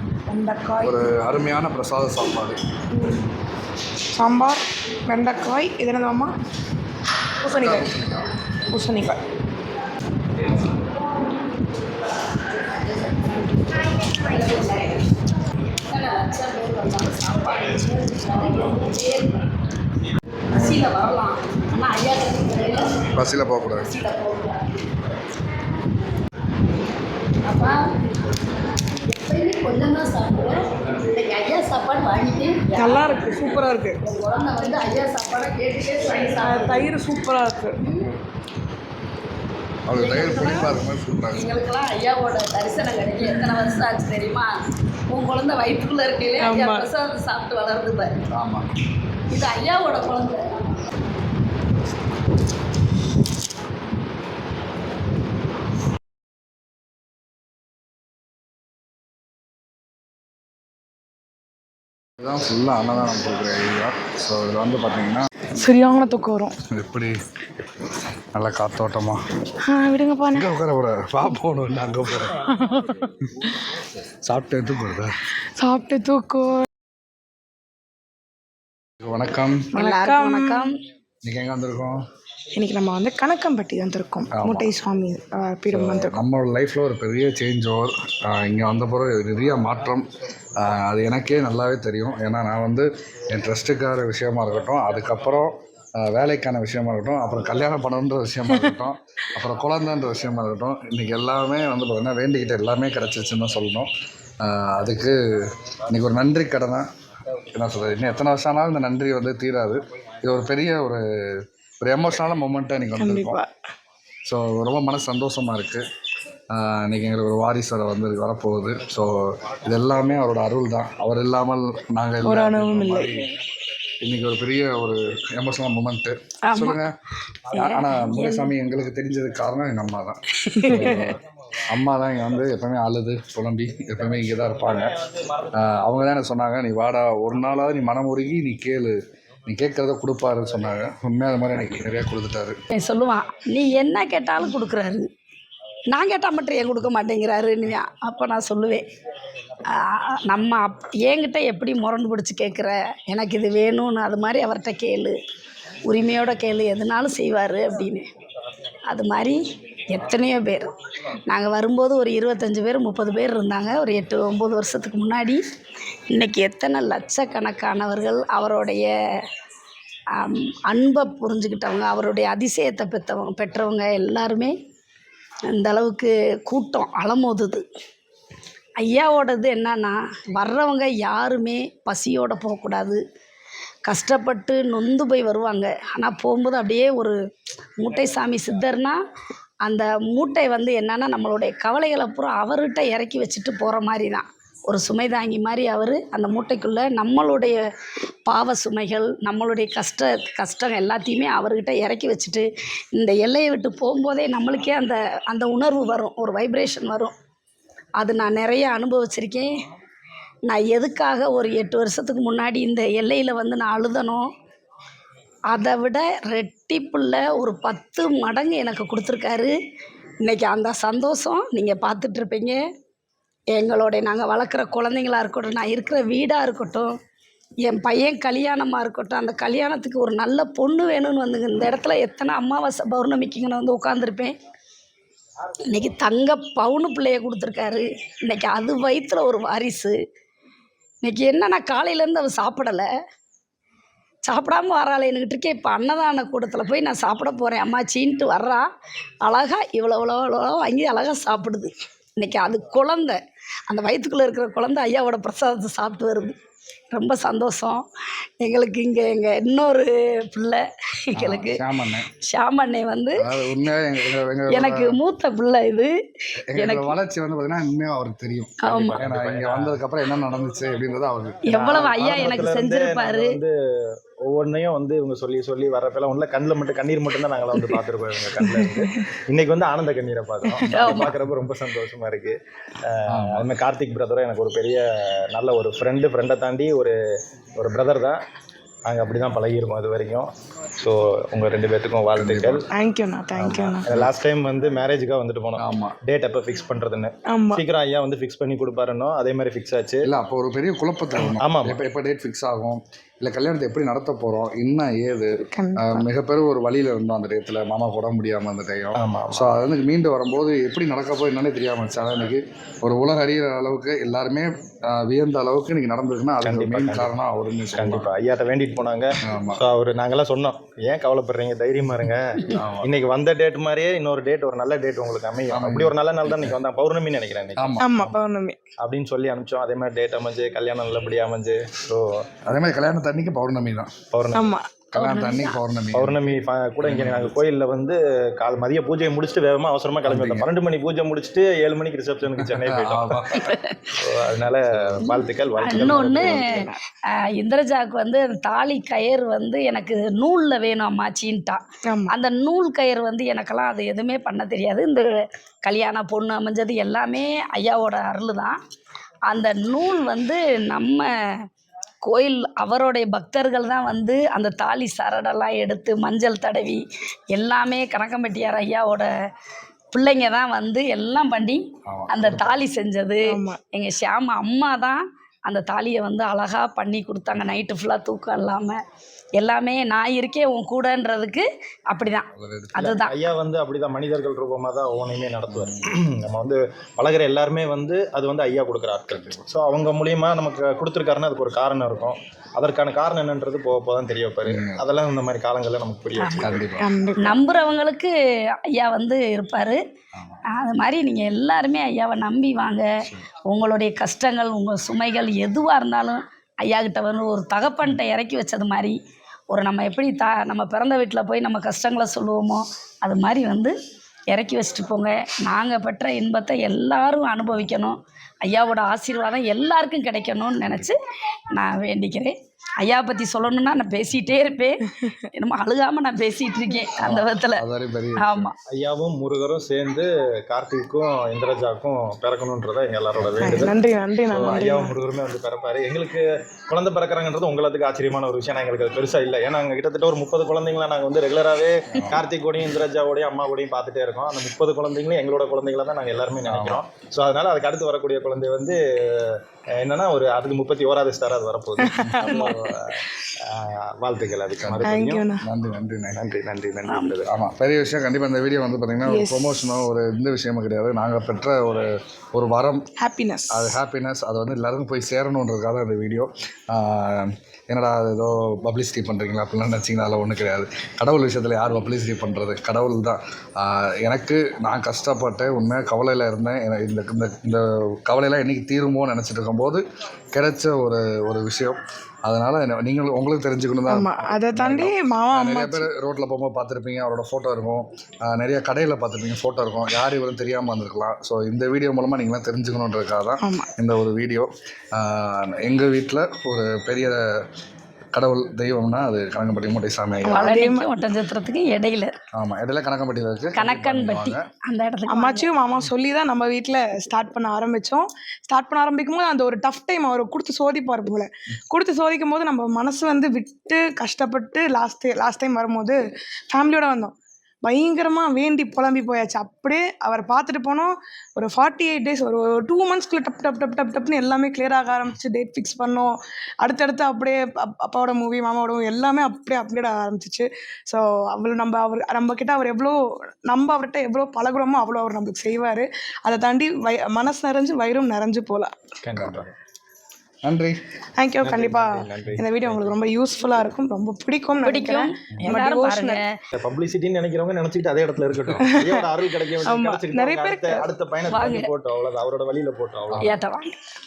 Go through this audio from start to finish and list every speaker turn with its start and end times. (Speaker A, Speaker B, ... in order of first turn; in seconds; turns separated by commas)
Speaker A: 0.3-1.0, Speaker B: 0.8-2.6, Speaker A: 2.9-3.3, Speaker A: 4.2-6.3, Speaker A: 7.4-7.9, Speaker B: 7.5-8.3, Speaker A: 8.7-9.2, Speaker C: 12.5-15.1, Speaker C: 15.6-19.5, Speaker C: 20.5-23.1, Speaker B: 20.5-20.8, Speaker B: 23.1-23.9, Speaker C: 23.7-24.6, Speaker C: 27.4-27.8, Speaker C: 28.9-33.5, Speaker A: 32.8-34.0, Speaker C: 34.0-36.9, Speaker A: 36.4-37.8, Speaker C: 37.8-38.1, Speaker B: 39.9-41.5, Speaker C: 40.0-40.8, Speaker C: 41.3-44.5, Speaker C: 45.1-48.2, Speaker A: 46.4-46.9, Speaker B: 48.4-48.7, Speaker C: 49.3-50.8, Speaker B: 62.2-65.3, Speaker A: 65.6-66.6, Speaker B: 66.7-67.2, Speaker B: 68.3-69.2, Speaker A: 69.7-70.5, Speaker B: 70.3-72.4, Speaker A: 72.5-73.0, Speaker B: 73.4-75.2, Speaker A: 75.6-76.7, Speaker B: 79.0-79.7, Speaker A: 79.7-80.7, Speaker C: 79.8-80.7, Speaker B: 81.2-82.0, Speaker A: 82.5-86.2, Speaker B: 84.3-84.7, Speaker B: 85.7-106.9, Speaker B: 107.5-113.4, Speaker A: 113.0-113.5, Speaker B: 114.3-115.8, Speaker B: 116.5-123.3, Speaker A: 122.2-123.2, Speaker B: 124.0-127.0, Speaker C: 126.5-126.8, Speaker C: 127.5-128.5, Speaker B: 127.5-134.9, Speaker A: 130.5-131.1, Speaker B: 135.5-142.6, Speaker C: 142.7-145.0, Speaker C: 145.9-148.8, Speaker C: 149.7-155.2, Speaker C: 155.9-158.1, Speaker C: 158.9-160.7, Speaker C: 161.3-165.4, Speaker C: 166.1-168.9, Speaker C: 170.2-174.5, Speaker C: 175.5-177.6, Speaker C: 178.8-183.0, Speaker C: 183.9-187.2, Speaker C: 187.8-189.0, Speaker C: 189.7-197.6, Speaker C: 198.3-207.1, Speaker C: 208.0-209.5, Speaker C: 210.5-214.3, Speaker C: 215.5-219.5, Speaker C: 220.2-222.6, Speaker C: 223.5-226.9, Speaker C: 227.6-234.3, Speaker C: 235.6-240.0, Speaker C: 241.0-242.9, Speaker C: 244.3-248.7, Speaker C: 249.2-256.4, Speaker C: 256.9-257.8, Speaker C: 258.4-263.3, Speaker B: 261.1-262.1, Speaker B: 263.2-265.0, Speaker C: 264.5-265.9, Speaker B: 266.5-271.4, Speaker C: 266.5-266.9, Speaker C: 268.6-269.0, Speaker D: 268.6-269.8, Speaker C: 271.4-273.4, Speaker D: 271.5-273.5, Speaker D: 274.2-286.9, Speaker A: 278.5-278.9, Speaker A: 280.5-281.1, Speaker C: 280.6-281.1, Speaker B: 283.1-283.5, Speaker D: 287.6-288.2, Speaker D: 288.9-292.6, Speaker B: 292.1-292.6, Speaker A: 292.7-293.9, Speaker B: 293.4-294.1, Speaker D: 293.4-300.1, Speaker B: 295.6-295.9, Speaker A: 297.3-297.6, Speaker B: 300.0-318.1, Speaker D: 301.1-301.8, Speaker A: 305.5-306.1, Speaker D: 308.9-309.6, Speaker D: 316.4-317.1, Speaker D: 317.8-327.8, Speaker B: 319.2-319.6, Speaker B: 322.5-322.9, Speaker B: 325.5-326.5, Speaker B: 327.6-328.1, Speaker A: 327.8-328.6, Speaker D: 328.8-332.2, Speaker B: 332.4-333.9, Speaker D: 334.1-334.5, Speaker A: 334.3-334.7, Speaker B: 334.9-337.4, Speaker C: 334.9-335.6, Speaker D: 335.9-343.4, Speaker B: 340.1-340.5, Speaker B: 342.4-343.5, Speaker C: 343.3-343.9, Speaker D: 344.0-346.7, Speaker C: 345.1-358.6, Speaker B: 345.8-346.1, Speaker A: 346.1-346.8, Speaker C: 359.3-361.4, Speaker C: 362.0-366.8, Speaker C: 367.3-369.1, Speaker C: 369.9-378.8, Speaker B: 371.9-372.6, Speaker A: 373.3-373.6, Speaker C: 379.4-383.1, Speaker B: 382.4-382.9, Speaker D: 382.8-396.8, Speaker B: 385.5-385.9, Speaker B: 389.1-389.4, Speaker B: 394.4-394.8, Speaker C: 396.2-396.6, Speaker B: 396.4-396.9, Speaker A: 396.8-397.4, Speaker C: 397.2-398.1, Speaker C: 398.7-399.8, Speaker B: 400.1-400.4, Speaker C: 400.5-402.9, Speaker C: 403.5-408.9, Speaker C: 409.5-413.7, Speaker C: 414.3-421.0, Speaker C: 421.5-427.6, Speaker B: 427.0-428.5, Speaker C: 428.2-428.5, Speaker D: 428.7-433.8, Speaker B: 433.2-433.7, Speaker A: 433.4-434.9, Speaker D: 434.3-455.3, Speaker B: 434.4-434.6, Speaker B: 441.9-442.2, Speaker B: 446.4-446.8, Speaker A: 451.8-452.7, Speaker B: 454.6-456.2, Speaker A: 454.8-455.4, Speaker D: 456.1-457.2, Speaker C: 456.9-457.1, Speaker B: 457.2-462.8, Speaker A: 459.1-459.5, Speaker A: 463.0-463.8, Speaker B: 463.5-479.8, Speaker B: 480.4-497.2, Speaker A: 483.9-485.9, Speaker A: 493.4-493.7, Speaker B: 498.1-500.5, Speaker A: 500.3-500.9, Speaker C: 500.3-502.1, Speaker B: 502.4-504.4, Speaker C: 503.5-505.5, Speaker A: 505.1-538.8, Speaker D: 539.0-539.5, Speaker B: 539.1-539.4, Speaker B: 540.4-540.8, Speaker A: 541.2-546.2, Speaker D: 541.4-542.9, Speaker C: 544.6-546.3, Speaker D: 546.6-553.3, Speaker A: 548.7-548.9, Speaker A: 549.6-550.9, Speaker C: 551.3-551.7, Speaker C: 553.2-553.8